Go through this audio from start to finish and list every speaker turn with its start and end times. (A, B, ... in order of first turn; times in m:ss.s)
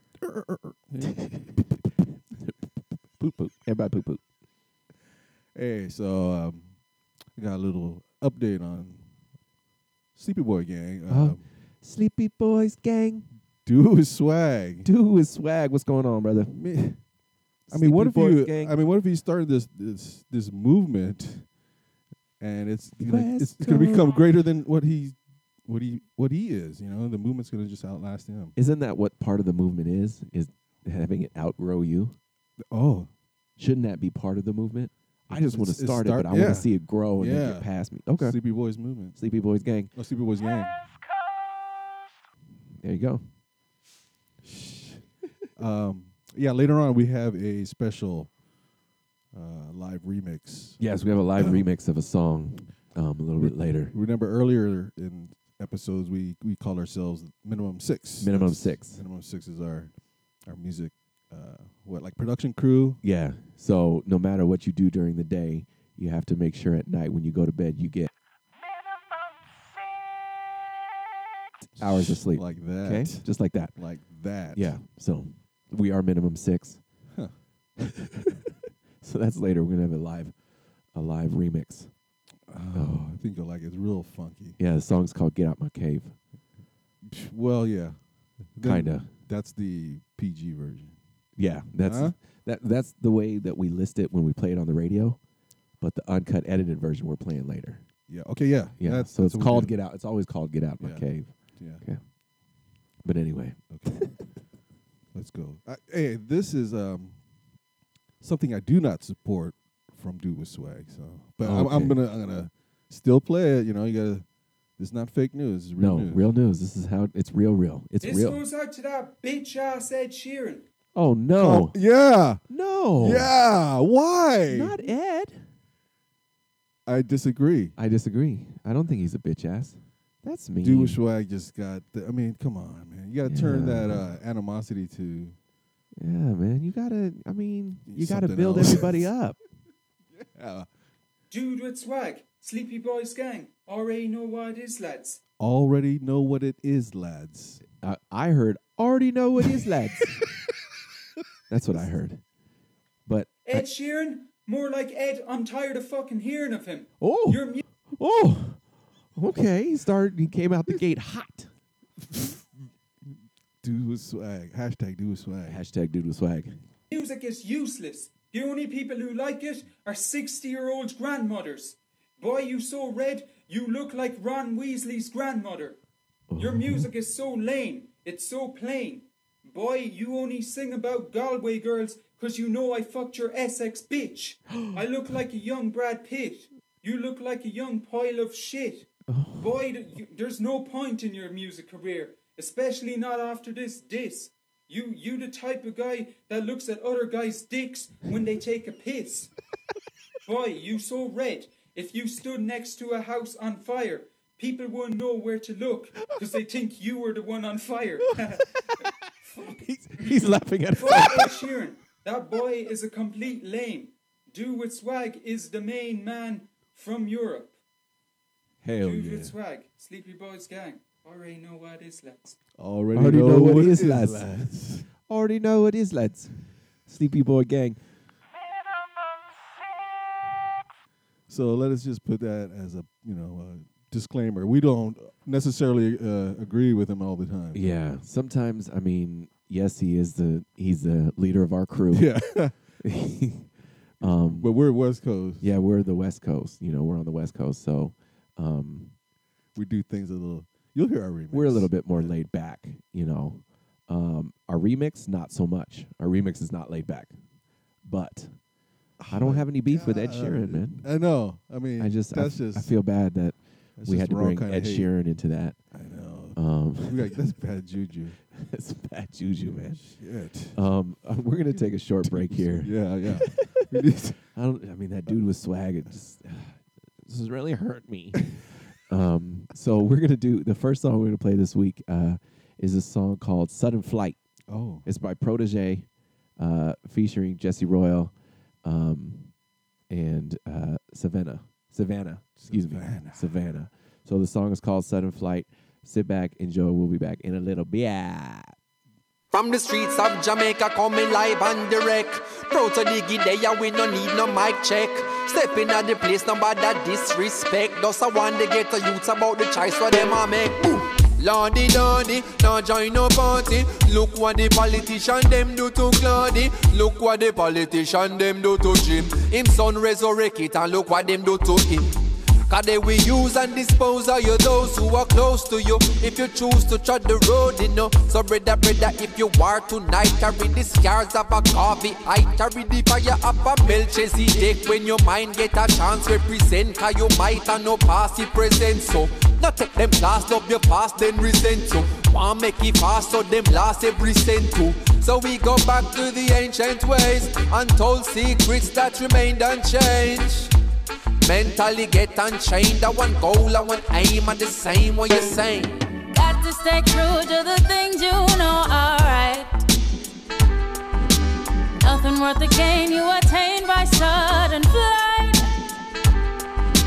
0:00.2-0:01.3 A
0:03.2-0:04.2 B
0:05.5-0:06.7 A
0:07.4-0:09.0 A
0:10.1-0:11.4 A
0:11.1-0:13.3 B
0:13.6-0:14.9 A
0:14.8-0:16.6 B
0:16.5-0:17.0 A
0:17.7-0:18.8 B
0:17.7-0:21.5 A
0:22.4-0:28.5 A
0:23.0-0:24.2 B
0:28.6-0:32.2 B
0:32.6-0:33.1 A
0:33.6-0:38.4 B
0:35.3-0:37.7 A
0:38.2-0:39.2 A
0:39.1-0:39.9 B
0:39.9-0:40.8 A
0:42.8-0:43.2 B
0:45.6-0:48.3 A
0:49.3-0:50.8 A
0:50.8-0:53.9 B
0:51.4-0:51.7 A
0:53.4-1:03.0 A
0:58.2-0:59.0 B
1:03.0-1:08.1 B
1:11.8-1:13.7 B
1:11.8-1:14.7 A
1:14.5-1:16.8 B
1:19.0-1:20.3 B
1:20.9-1:21.9 B
1:22.5-1:24.6 A
1:22.7-1:23.1 B
1:24.6-1:26.1 B
1:27.0-1:28.0 A
1:28.5-1:31.0 A
1:28.6-1:29.1 B
1:31.4-1:35.2 B
1:31.8-1:32.2 A
1:35.8-1:37.8 B
1:38.1-1:39.7 A
1:38.8-1:42.0 B
1:40.8-1:41.8 A
1:43.0-1:44.0 B
1:43.7-1:44.1 A
1:45.1-1:47.2 A
1:48.2-1:54.2 A
1:51.4-1:52.0 B
1:54.8-1:56.2 A
1:55.8-1:58.4 B
1:58.0-2:00.6 C
2:00.9-2:01.8 B
2:01.4-2:02.4 A
2:02.5-2:03.3 B
2:03.0-2:04.8 A
2:04.5-2:05.4 B
2:06.8-2:07.7 A
2:07.8-2:11.0 B
2:10.6-2:15.4 A
2:13.2-2:14.1 B
2:16.0-2:19.4 B
2:17.9-2:19.1 A
2:20.1-2:20.7 A
2:21.3-2:25.2 C
2:25.4-2:27.6 A
2:27.7-2:30.2 B
2:31.5-2:32.2 B
2:33.0-2:33.6 B
2:33.4-2:37.6 C
2:37.0-2:38.6 B
2:39.1-2:41.5 B
2:43.6-2:45.6 A
2:45.4-2:46.5 B
2:46.9-2:55.8 C
2:56.3-2:56.9 B
2:56.4-3:08.9 C
3:04.5-3:04.8 B
3:09.1-3:09.5 B
3:09.4-3:19.3 C
3:20.2-3:28.4 C
3:29.4-3:31.3 B
3:30.0-3:37.5 C
3:38.6-3:39.3 B
3:38.8-3:42.4 C
3:42.6-3:44.9 A
3:42.9-3:44.5 B
3:45.0-3:47.8 B
3:51.3-3:57.6 A
3:57.5-4:02.1 B
4:01.9-4:02.6 A
4:02.8-4:03.5 B
4:04.0-4:04.5 B
4:04.0-4:05.5 A
4:05.4-4:08.9 B
4:09.5-4:12.1 A
4:11.3-4:17.1 B
4:17.8-4:18.4 B
4:19.0-4:22.7 A
4:19.1-4:20.8 B
4:21.8-4:25.6 B
4:23.8-4:24.9 A
4:25.7-4:28.2 A
4:26.4-4:27.2 B
4:28.3-4:29.8 B
4:29.4-4:30.6 A
4:30.5-4:32.8 B
4:31.5-4:34.2 A
4:34.3-4:38.2 B
4:38.9-4:44.2 B
4:44.5-4:44.8 A
4:44.8-4:48.1 B
4:48.6-4:49.3 B
4:49.9-4:58.6 B
4:52.4-4:53.4 A
4:59.3-5:50.5 D
5:51.2-5:55.8 D
5:56.1-5:59.6 E
6:01.8-6:05.5 E